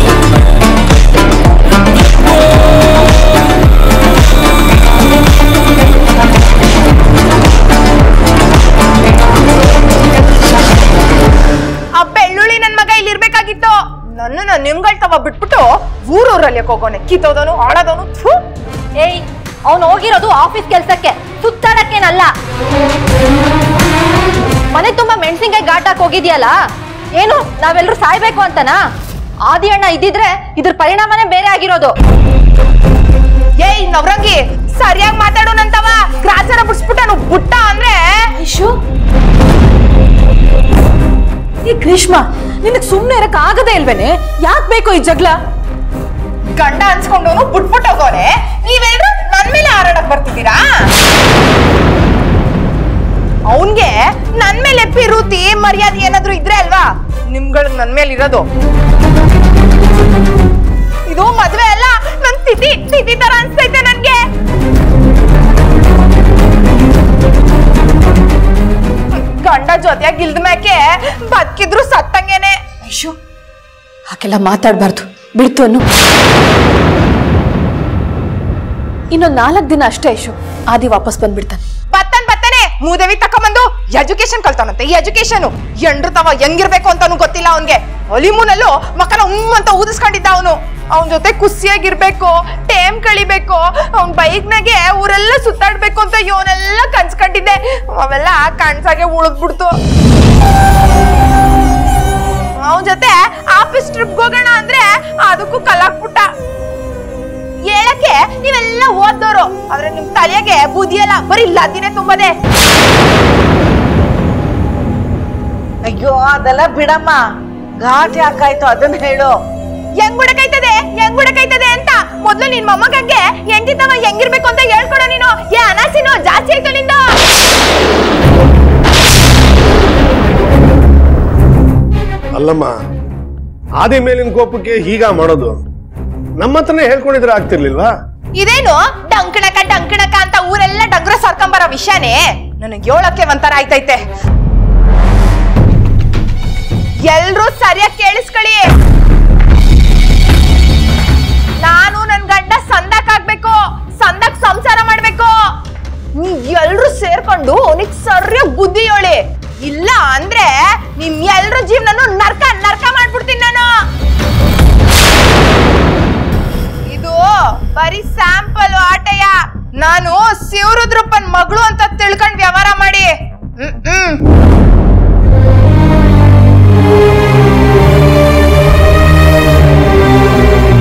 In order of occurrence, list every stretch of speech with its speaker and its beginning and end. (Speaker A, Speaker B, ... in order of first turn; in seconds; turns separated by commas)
Speaker A: 11.9-18.4, Speaker B: 19.0-22.3, Speaker B: 24.7-26.5, Speaker B: 27.2-28.8, Speaker B: 29.5-31.9, Speaker A: 33.6-38.2, Speaker C: 38.4-38.7, Speaker C: 41.6-45.3, Speaker A: 46.5-50.6, Speaker A: 53.5-58.4, Speaker A: 61.1-64.2, Speaker A: 69.1-72.6, Speaker C: 72.8-73.1, Speaker C: 74.1-75.8, Speaker C: 79.1-81.6, Speaker A: 81.9-99.8, Speaker A: 102.6-106.3, Speaker A: 107.6-112.3, Speaker D: 116.1-117.1, Speaker D: 118.3-119.2, Speaker A: 120.0-127.1, Speaker E: 132.3-132.7, Speaker E: 133.8-135.6, Speaker E: 136.4-137.9, Speaker A: 138.3-144.0, Speaker A: 147.0-148.7, Speaker A: 151.6-155.3, Speaker A: 156.2-163.7, Speaker A: 166.9-174.2